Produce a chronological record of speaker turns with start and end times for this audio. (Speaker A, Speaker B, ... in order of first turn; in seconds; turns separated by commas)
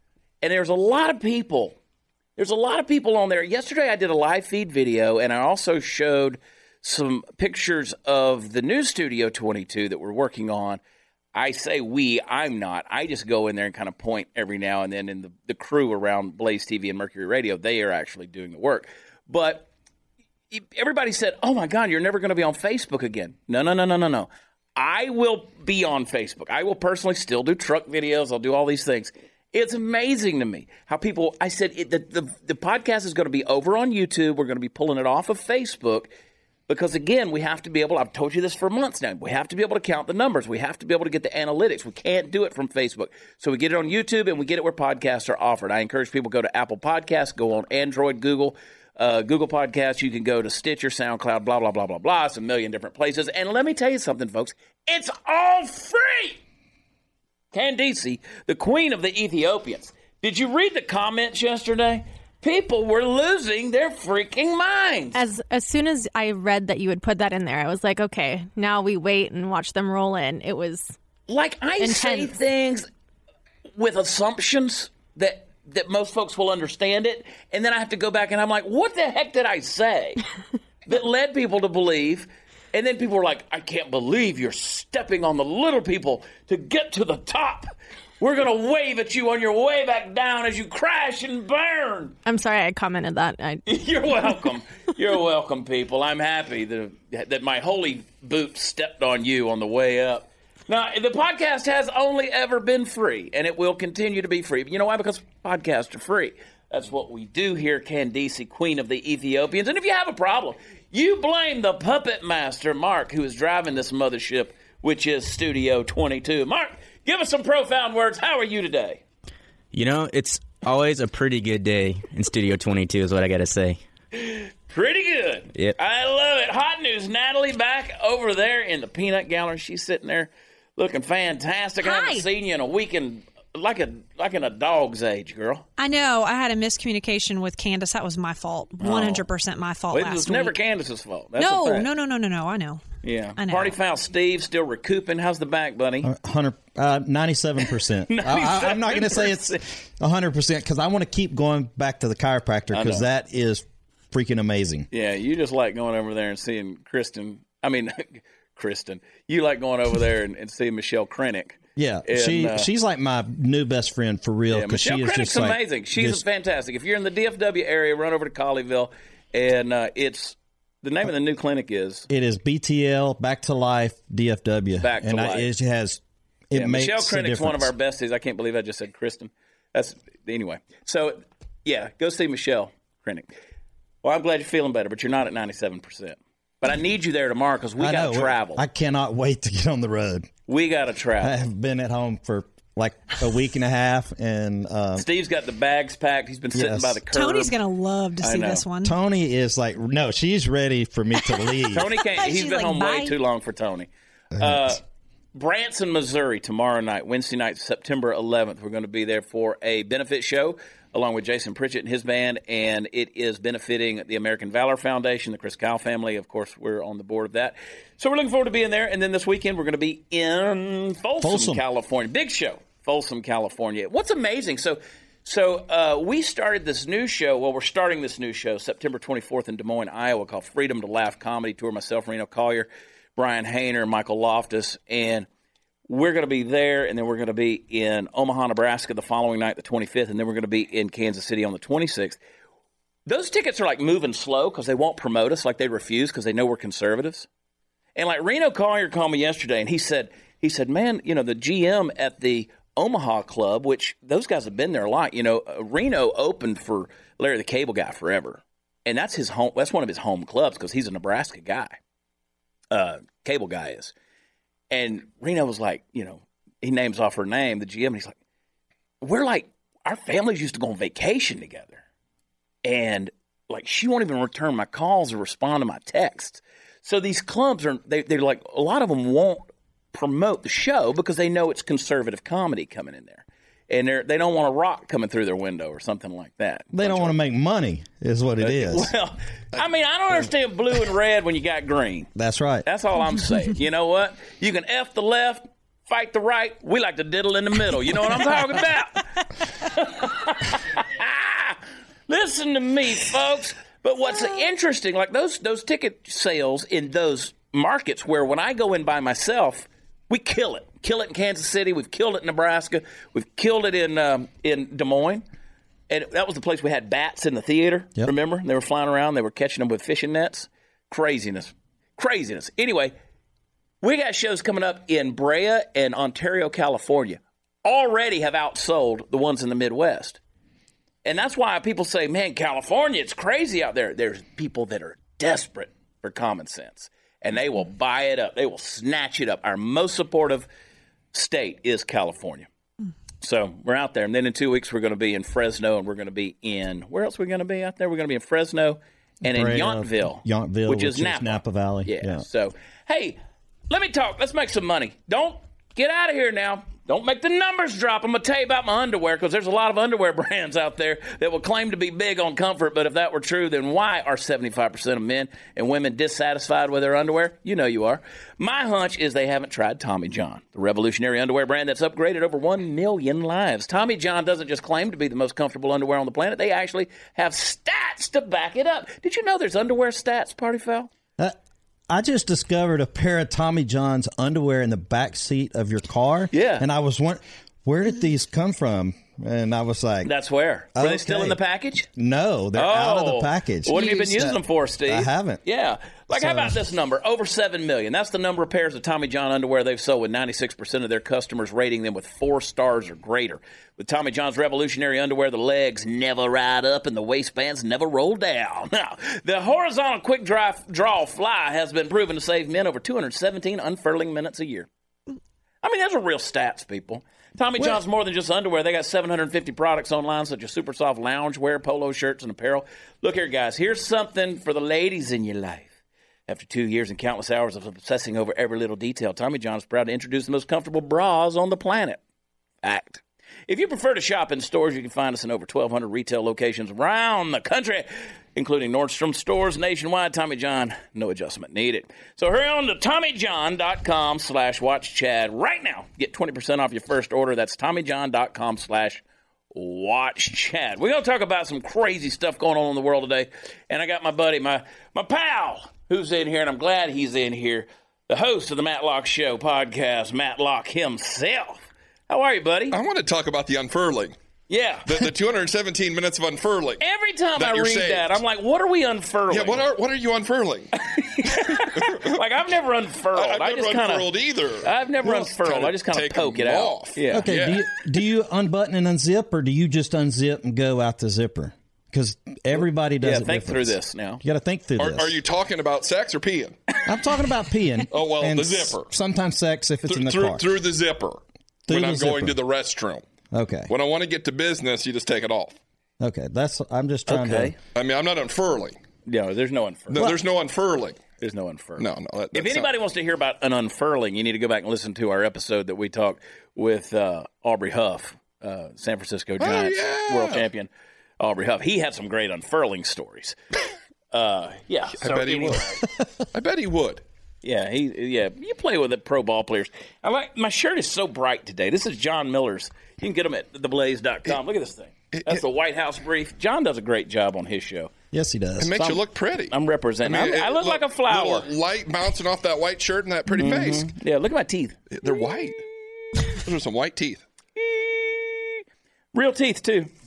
Speaker A: 0.4-1.8, Speaker A: 2.4-10.8, Speaker A: 11.3-19.7, Speaker A: 20.5-36.1, Speaker A: 36.7-56.4, Speaker A: 57.5-65.2, Speaker B: 65.1-70.9, Speaker A: 71.3-72.9, Speaker B: 71.8-72.3, Speaker A: 73.8-80.2, Speaker A: 80.9-87.7, Speaker A: 88.2-92.2, Speaker B: 92.2-93.6, Speaker A: 93.7-119.0, Speaker C: 119.7-123.8, Speaker A: 124.1-135.7, Speaker D: 131.8-132.2, Speaker D: 135.8-140.6, Speaker A: 138.8-139.2, Speaker A: 139.9-141.9, Speaker D: 141.4-143.8, Speaker A: 143.0-146.1, Speaker E: 146.0-154.9, Speaker A: 148.1-149.6, Speaker A: 152.7-153.1, Speaker A: 154.9-162.7, Speaker E: 161.8-166.2, Speaker A: 164.5-172.1, Speaker E: 172.1-177.7, Speaker A: 174.8-175.5, Speaker A: 176.5-183.3, Speaker A: 184.0-188.6, Speaker E: 187.8-190.3, Speaker A: 190.5-191.5, Speaker E: 191.2-195.1, Speaker A: 195.0-197.5, Speaker E: 196.5-197.0, Speaker D: 197.1-198.9, Speaker A: 198.2-198.6, Speaker E: 198.8-201.9, Speaker A: 201.7-204.8, Speaker D: 202.1-203.2, Speaker A: 205.3-235.3, Speaker E: 221.2-221.6, Speaker A: 235.9-242.2, Speaker A: 243.1-247.3, Speaker A: 248.0-261.8, Speaker A: 262.7-263.9, Speaker A: 264.7-268.2, Speaker A: 269.0-271.8, Speaker A: 272.6-287.2, Speaker E: 286.7-288.9, Speaker A: 288.4-292.1, Speaker E: 292.1-292.6, Speaker A: 292.6-315.2, Speaker A: 315.9-322.9, Speaker A: 323.8-330.2, Speaker A: 331.1-340.5, Speaker A: 341.1-342.5, Speaker A: 343.2-380.9, Speaker E: 349.2-352.2, Speaker E: 381.9-390.1, Speaker A: 386.3-386.6, Speaker A: 390.1-391.9, Speaker E: 390.8-395.4, Speaker A: 392.5-414.7, Speaker E: 396.1-396.6, Speaker A: 415.6-425.8, Speaker A: 426.3-432.0, Speaker A: 432.6-462.8, Speaker F: 462.7-464.1, Speaker A: 464.5-464.9, Speaker F: 464.9-466.8, Speaker A: 466.8-469.7, Speaker F: 467.4-468.2, Speaker F: 469.3-470.7, Speaker A: 470.8-477.3, Speaker F: 471.5-472.2, Speaker F: 473.1-477.7, Speaker E: 477.1-485.2, Speaker A: 482.6-484.2, Speaker F: 484.8-486.6, Speaker E: 486.9-490.5, Speaker F: 487.9-488.9, Speaker F: 489.9-493.1, Speaker E: 491.7-492.4, Speaker E: 493.3-493.7, Speaker F: 493.7-495.6, Speaker E: 496.0-497.6, Speaker A: 497.1-497.6, Speaker F: 497.7-498.8, Speaker A: 499.1-500.2, Speaker F: 499.9-501.0, Speaker A: 501.2-513.4, Speaker F: 501.8-502.7, Speaker F: 509.4-510.4, Speaker A: 514.1-515.9, Speaker F: 515.0-517.0, Speaker A: 517.4-527.9, Speaker F: 525.1-525.4, Speaker E: 528.1-529.0, Speaker F: 528.6-533.9, Speaker A: 529.5-531.5, Speaker A: 533.4-534.9, Speaker F: 534.9-535.6, Speaker F: 536.3-537.2, Speaker A: 537.6-538.6, Speaker A: 539.1-539.9